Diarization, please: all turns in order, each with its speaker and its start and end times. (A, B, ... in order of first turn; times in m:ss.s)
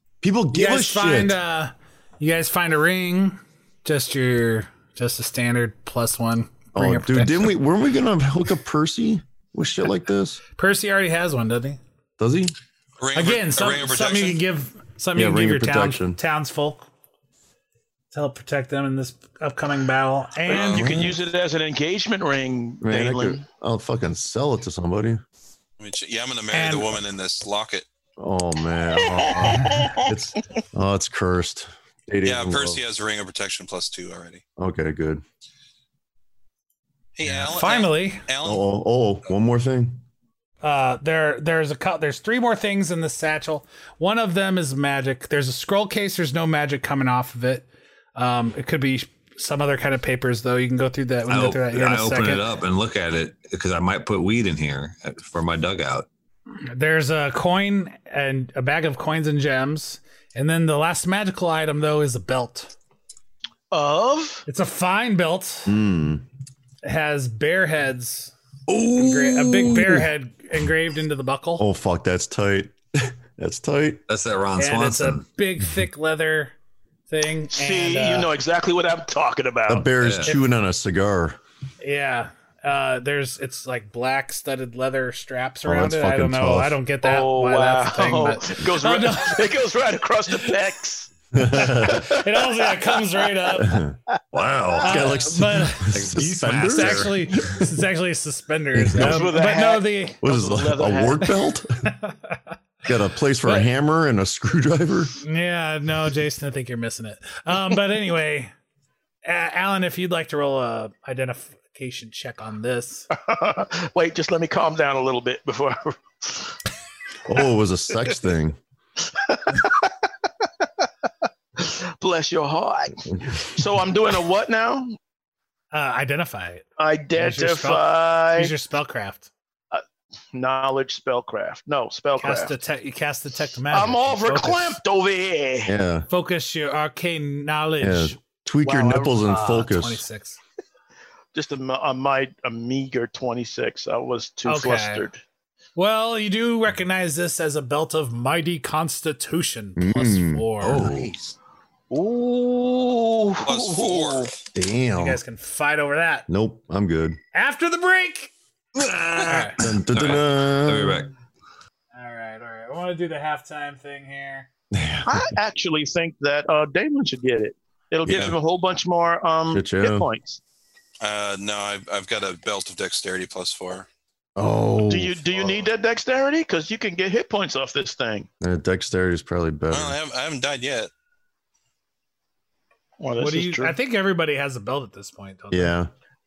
0:00.2-0:01.4 A
0:00.5-0:07.5 B
0:06.7-0:10.4 A
0:10.6-0:11.8 B
0:12.2-0:12.5 A
0:13.0-0:14.4 C
0:13.2-0:16.9 B
0:15.2-0:16.2 A
0:18.1-0:20.9 B
0:20.5-0:23.4 D
0:20.5-0:21.1 C
0:22.8-0:25.2 A
0:25.8-0:27.9 C
0:26.5-0:27.0 B
0:28.2-0:32.8 A
0:29.0-0:30.1 D
0:32.2-0:34.4 C
0:34.6-0:35.2 A
0:37.2-0:38.6 C
0:37.4-0:38.2 B
0:38.4-0:40.0 A
0:40.6-0:52.4 B
0:51.3-0:56.1 E
0:56.6-1:02.7 B
1:03.7-1:04.4 D
1:04.5-1:05.8 B
1:05.7-1:06.2 A
1:06.8-1:08.3 B
1:08.7-1:09.9 E
1:08.9-1:10.0 A
1:09.0-1:11.6 B
1:11.6-1:14.0 A
1:14.1-1:15.2 E
1:14.6-1:16.5 B
1:17.1-1:18.3 B
1:17.5-1:19.9 D
1:19.7-1:21.4 A
1:20.0-1:20.4 E
1:21.8-1:29.6 B
1:25.6-1:26.8 A
1:27.0-1:31.1 D
1:31.4-1:32.0 A
1:31.5-1:33.8 B
1:31.9-1:33.3 D
1:33.6-1:34.0 A
1:34.3-1:37.1 E
1:34.8-1:35.9 B
1:34.8-1:37.8 A
1:36.6-1:40.2 B
1:38.7-1:39.4 A
1:39.0-1:41.3 D
1:40.2-1:41.9 A
1:41.8-1:42.4 B
1:42.8-1:45.2 A
1:45.2-1:48.5 B
1:49.2-1:53.1 B
1:53.1-1:56.6 D
1:57.3-1:58.6 A
1:59.0-2:00.8 D
2:01.6-2:05.0 D
2:05.7-2:09.3 B
2:06.8-2:08.5 D
2:09.7-2:12.5 D
2:12.2-2:14.8 B
2:13.7-2:15.7 D
2:15.7-2:16.1 A
2:16.1-2:18.2 B
2:17.8-2:20.0 A
2:18.6-2:19.2 D
2:19.2-2:20.4 B
2:21.3-2:25.2 D
2:24.4-2:25.1 B
2:25.8-2:30.9 B
2:29.8-2:31.1 A
2:30.6-2:31.3 E
2:31.9-2:34.3 D
2:33.4-2:34.3 C
2:34.5-2:35.2 A
2:35.0-2:36.3 B
2:36.3-2:37.2 A
2:37.3-2:38.3 B
2:38.8-2:41.1 E
2:39.3-2:39.6 B
2:39.6-2:41.1 A
2:41.9-2:44.5 B
2:44.7-2:45.3 A
2:45.1-2:50.4 D
2:48.0-2:48.3 A
2:49.5-2:50.1 A
2:51.0-2:53.9 C
2:54.4-2:55.5 A
2:54.9-2:58.3 D
2:58.4-3:00.0 A
2:59.7-3:00.9 C
3:03.0-3:03.8 D
3:03.2-3:05.8 B
3:05.5-3:05.9 A